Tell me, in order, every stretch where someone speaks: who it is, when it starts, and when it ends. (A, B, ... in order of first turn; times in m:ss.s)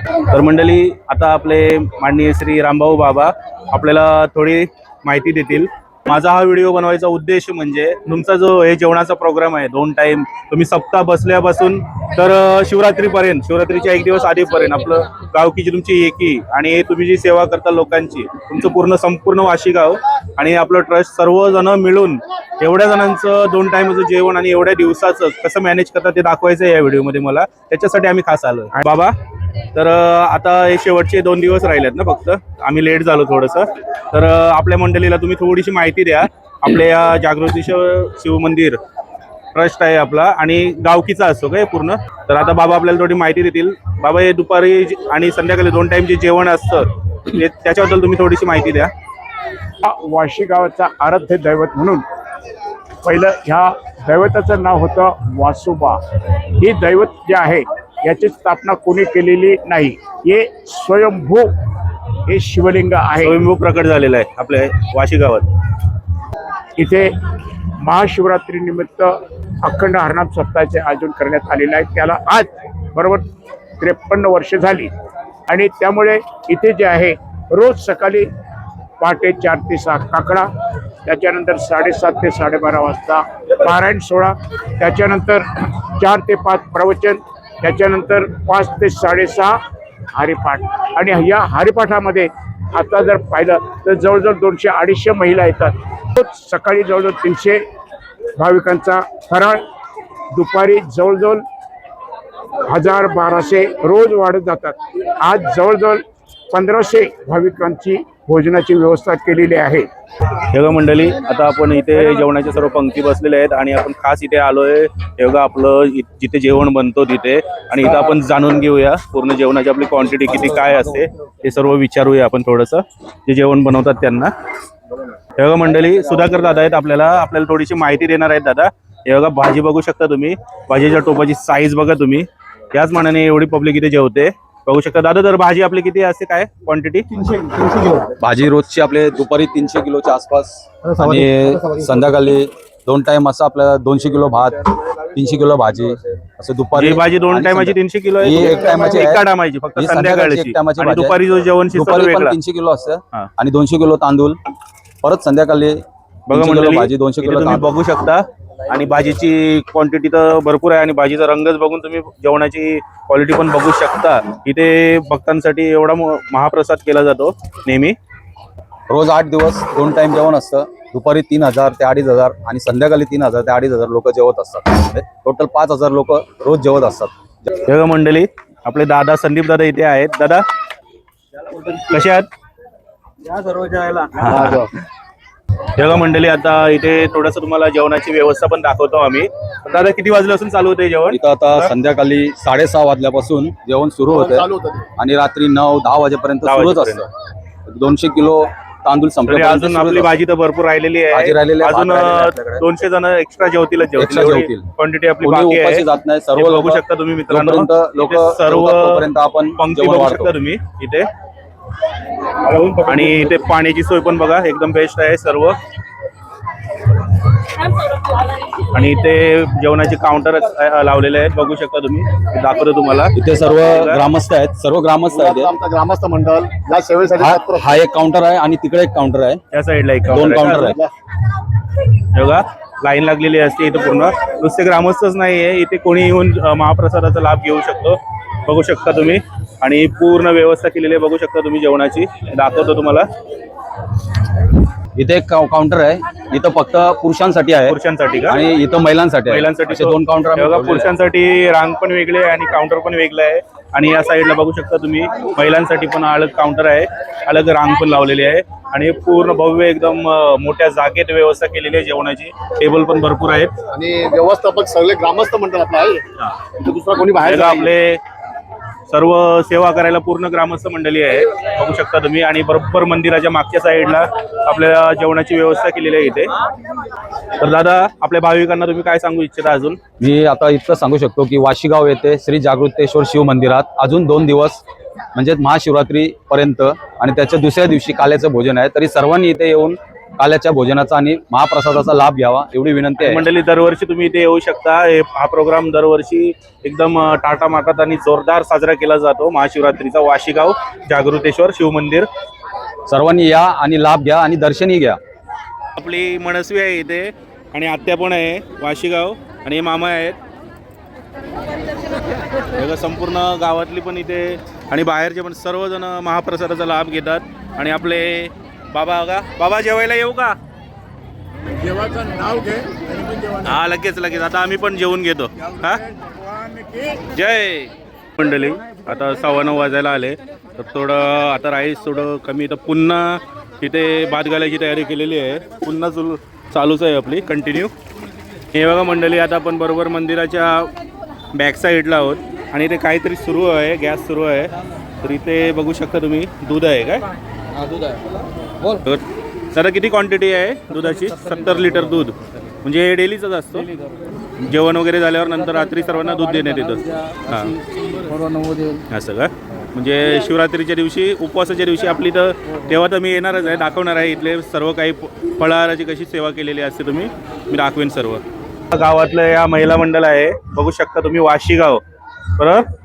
0:00.3-0:29.1 A
0:29.7-0:38.8 A
0:39.5-0:48.9 A
0:49.8-0:52.0 B
0:53.0-0:56.0 B
0:56.6-1:01.5 B
1:02.3-1:03.4 B
1:03.2-1:05.5 A
1:06.8-1:07.1 B
1:07.8-1:13.2 B
1:13.8-1:14.9 B
1:15.5-1:18.3 B
1:19.0-1:20.5 B
1:21.0-1:29.6 B
1:30.1-1:37.6 B
1:38.4-1:39.6 B
1:40.3-1:41.4 B
1:42.7-1:49.9 B
1:50.5-2:04.3 A
2:05.4-2:17.0 A
2:17.9-2:31.2 C
2:26.7-2:32.4 A
2:31.7-2:34.4 C
2:35.0-2:37.7 C
2:36.3-2:48.0 A
2:48.9-2:57.5 C
2:57.6-3:00.4 A
3:01.5-3:02.3 A
3:03.4-3:04.7 A
3:04.3-3:04.6 D
3:05.8-3:11.7 A
3:11.1-3:17.1 C
3:14.1-3:14.8 D
3:16.4-3:17.0 A
3:17.7-3:20.1 C
3:19.2-3:31.1 A
3:21.1-3:22.6 C
3:24.0-3:24.7 C
3:25.2-3:30.3 C
3:32.4-3:35.6 A
3:38.6-3:44.1 A
3:43.1-3:45.5 C
3:45.1-3:47.7 D
3:47.2-3:49.4 C
3:49.5-3:50.8 A
3:50.1-3:50.8 C
3:50.3-3:50.9 D
3:52.1-4:03.1 A
4:05.0-4:10.9 C
4:07.7-4:08.4 A
4:09.3-4:23.6 A
4:23.7-4:27.7 D
4:27.2-4:28.0 A
4:28.9-4:36.3 A
4:37.4-4:39.8 A
4:40.0-4:44.6 C
4:45.1-4:53.2 C
4:53.0-5:02.1 A
5:02.9-5:05.0 C
5:05.8-5:10.2 A
5:12.5-5:20.4 A
5:21.7-5:22.7 B
5:23.2-5:25.8 A
5:27.0-5:37.7 A
5:38.5-5:40.7 A
5:41.3-5:47.1 A
5:48.7-5:53.7 A
5:54.4-6:11.8 A
6:12.4-6:12.6 A